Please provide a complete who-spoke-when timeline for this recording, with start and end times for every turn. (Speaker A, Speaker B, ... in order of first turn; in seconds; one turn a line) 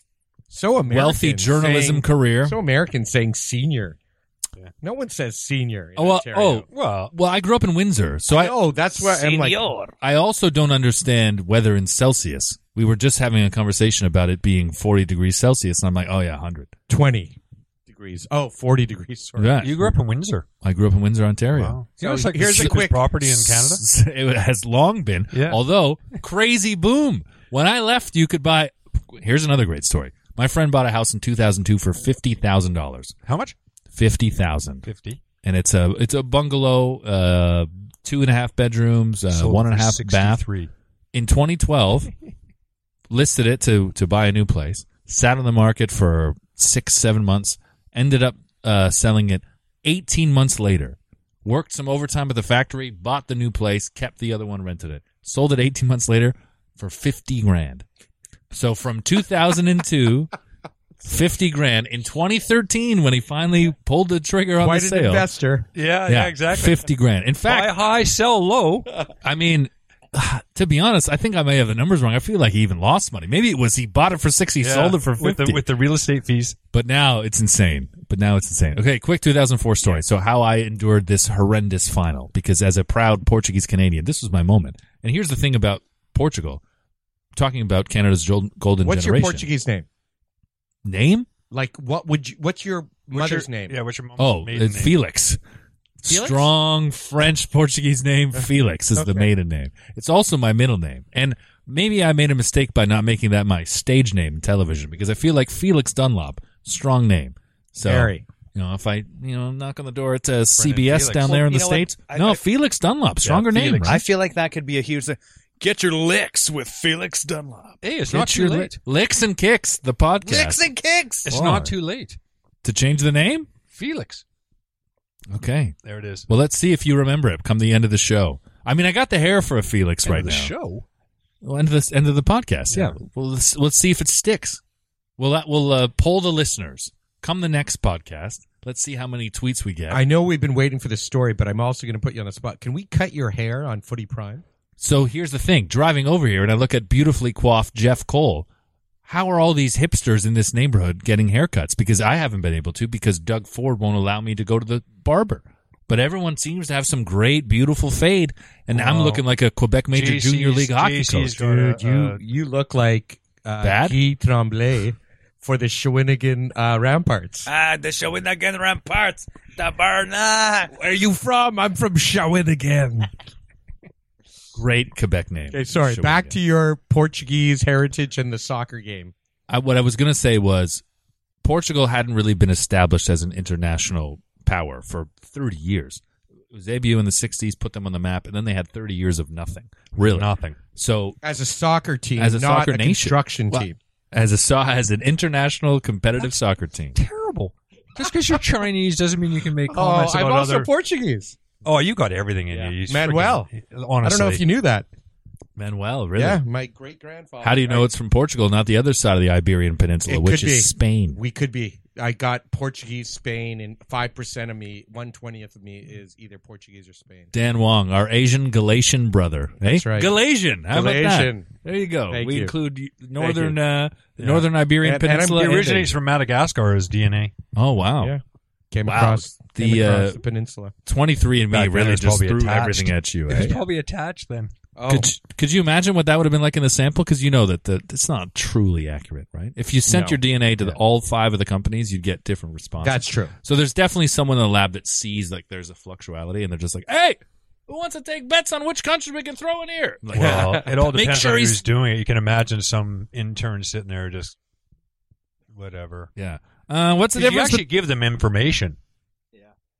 Speaker A: 0.5-4.0
Speaker B: 0.9-2.6
Speaker A: 4.8-6.7
Speaker B: 6.0-8.5
Speaker C: 6.7-7.1
Speaker A: 8.3-9.7
Speaker D: 9.0-9.9
Speaker B: 10.0-16.7
Speaker A: 16.9-19.6
Speaker B: 19.4-19.9
Speaker C: 19.6-20.4
Speaker B: 20.6-21.8
Speaker C: 21.5-23.8
Speaker A: 22.0-23.1
Speaker B: 22.5-33.1
Speaker C: 25.3-25.6
Speaker C: 33.2-33.5
Speaker B: 33.9-34.9
Speaker C: 34.9-35.2
Speaker B: 35.4-40.4
Speaker C: 39.3-40.7
Speaker B: 41.1-42.1
Speaker B: 43.1-57.8
Speaker B: 58.5-60.3
Speaker B: 61.0-65.3
Speaker A: 64.6-65.7
Speaker C: 65.7-66.9
Speaker B: 66.0-67.7
Speaker C: 67.5-68.9
Speaker B: 69.2-75.6
Speaker C: 74.6-76.6
Speaker B: 76.7-86.6
Speaker B: 87.3-89.5
Speaker A: 88.8-89.9
Speaker B: 90.8-91.3
Speaker A: 91.5-93.8
Speaker C: 93.1-94.9
Speaker B: 94.2-95.4
Speaker B: 96.0-114.0
Speaker A: 96.1-96.5
Speaker A: 99.0-99.3
Speaker A: 107.8-108.2
Speaker C: 110.6-111.3
Speaker D: 111.1-112.4
Speaker C: 113.2-113.9
Speaker D: 113.8-117.8
Speaker C: 117.8-118.8
Speaker B: 118.1-120.7
Speaker D: 120.2-121.3
Speaker C: 121.2-122.2
Speaker B: 121.3-121.7
Speaker B: 122.6-123.5
Speaker C: 123.7-124.2
Speaker B: 125.3-125.7
Speaker C: 125.8-126.3
Speaker B: 126.3-130.5
Speaker C: 130.0-130.8
Speaker B: 131.4-134.6
Speaker B: 135.2-140.0
Speaker A: 139.9-144.4
Speaker B: 144.8-148.5
Speaker B: 149.0-161.4
Speaker C: 158.7-159.2
Speaker C: 159.9-162.2
Speaker A: 161.4-167.5
Speaker B: 163.6-163.9
Speaker D: 167.4-170.7
Speaker A: 170.7-173.1
Speaker B: 174.5-176.4
Speaker A: 175.5-179.1
Speaker B: 179.5-180.8
Speaker B: 181.4-191.2
Speaker C: 190.0-190.6
Speaker A: 191.2-193.8
Speaker B: 192.2-197.0
Speaker C: 196.9-200.7
Speaker A: 199.7-201.4
Speaker C: 201.6-204.4
Speaker A: 202.5-203.5
Speaker A: 204.0-204.9
Speaker B: 205.6-206.4
Speaker A: 206.2-207.9
Speaker B: 207.4-211.2
Speaker A: 210.1-217.3
Speaker B: 217.3-225.9
Speaker A: 219.7-220.1
Speaker A: 220.7-221.5
Speaker A: 222.1-222.5
Speaker A: 223.2-223.6
Speaker C: 224.2-224.5
Speaker A: 224.8-225.7
Speaker C: 225.3-227.3
Speaker B: 227.5-228.2
Speaker A: 228.0-230.7
Speaker B: 228.8-230.2
Speaker B: 230.8-233.6
Speaker C: 231.5-234.5
Speaker A: 234.8-235.1
Speaker B: 234.9-251.6
Speaker A: 239.9-240.2
Speaker A: 242.8-243.3
Speaker C: 250.1-254.3
Speaker A: 250.1-250.7
Speaker C: 255.5-256.1
Speaker B: 256.1-257.6
Speaker C: 257.1-258.8